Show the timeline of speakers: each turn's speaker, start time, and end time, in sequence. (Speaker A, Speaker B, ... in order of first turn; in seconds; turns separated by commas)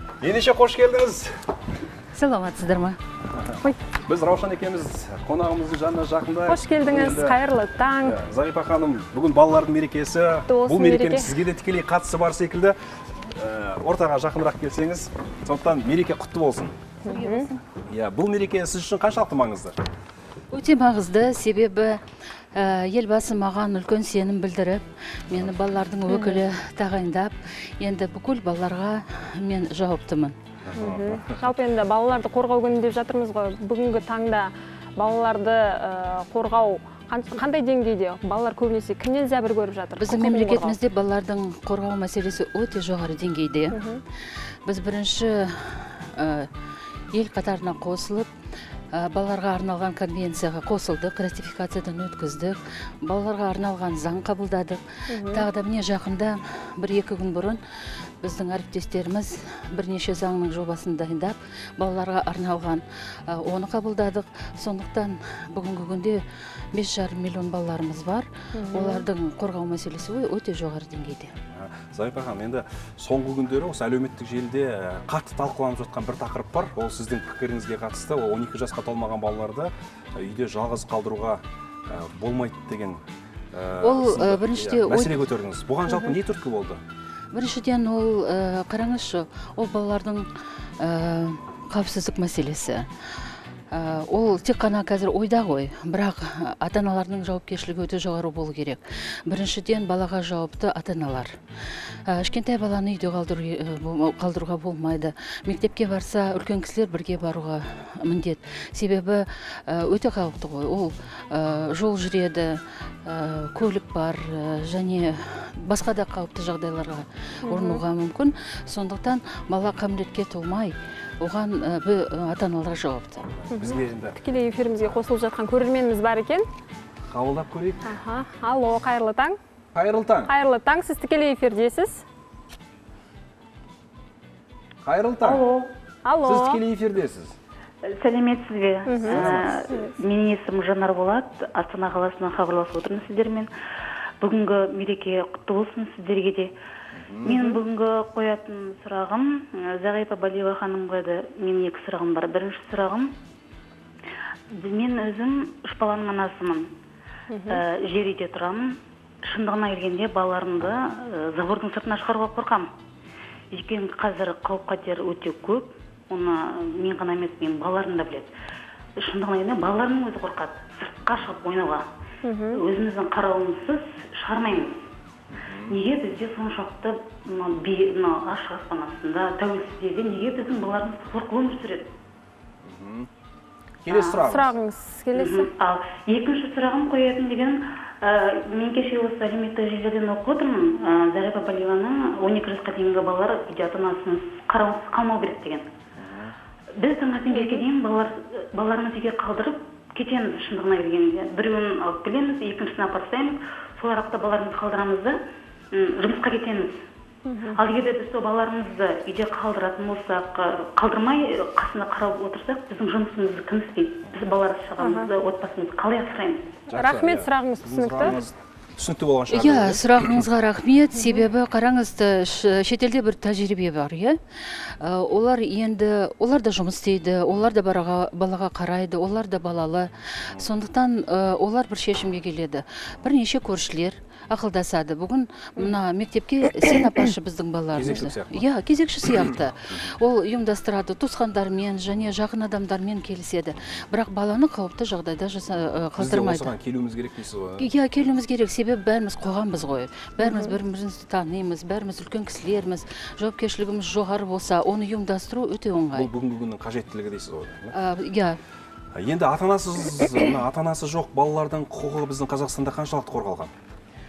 Speaker A: 0.2-1.3, Speaker B: 2.1-3.0, Speaker A: 3.4-7.4, Speaker C: 6.5-8.2, Speaker A: 8.0-12.8, Speaker C: 10.5-11.3, Speaker A: 13.3-16.8, Speaker C: 17.0-17.5, Speaker B: 17.1-17.6, Speaker A: 17.9-19.7, Speaker B: 20.5-22.0, Speaker B: 22.5-30.4, Speaker C: 26.1-26.4, Speaker A: 30.6-31.4, Speaker C: 30.7-40.8, Speaker B: 40.0-43.8, Speaker C: 43.7-44.0, Speaker B: 44.6-46.5, Speaker B: 47.1-48.3, Speaker B: 48.9-71.3, Speaker C: 55.1-55.5, Speaker C: 68.5-69.1, Speaker A: 71.5-86.8, Speaker B: 83.8-85.3, Speaker B: 87.3-90.3, Speaker B: 90.8-92.9, Speaker B: 93.7-123.3, Speaker C: 117.4-117.8, Speaker A: 123.5-124.1, Speaker C: 123.5-126.5, Speaker A: 127.1-127.9, Speaker C: 127.8-129.4, Speaker A: 129.7-130.3, Speaker C: 130.3-132.0, Speaker A: 134.8-135.4, Speaker D: 135.2-135.7, Speaker C: 136.0-136.6, Speaker A: 136.2-137.3, Speaker D: 137.8-143.5, Speaker C: 138.8-139.9, Speaker A: 139.1-139.5, Speaker D: 144.2-146.5, Speaker A: 146.9-147.3, Speaker D: 147.2-153.1, Speaker C: 147.3-147.6, Speaker D: 154.5-156.7, Speaker C: 157.3-157.6, Speaker D: 157.5-162.7, Speaker D: 163.5-168.3, Speaker D: 169.0-171.8, Speaker C: 172.2-172.6, Speaker D: 172.5-174.8, Speaker A: 175.4-175.8, Speaker D: 175.7-181.9, Speaker A: 182.6-183.1, Speaker A: 183.8-184.5, Speaker D: 183.9-184.3, Speaker C: 184.2-185.5, Speaker D: 185.1-195.7, Speaker A: 196.0-196.3, Speaker D: 196.8-205.2, Speaker C: 197.3-197.6, Speaker D: 205.7-206.8, Speaker C: 207.2-207.6, Speaker D: 207.5-216.6, Speaker C: 214.8-215.1, Speaker C: 216.7-218.2, Speaker A: 216.7-220.2, Speaker B: 219.3-246.5, Speaker A: 237.7-238.4, Speaker A: 245.9-247.7, Speaker B: 247.6-256.1, Speaker C: 250.2-250.5, Speaker A: 255.9-257.7, Speaker B: 257.7-258.4, Speaker A: 258.9-263.5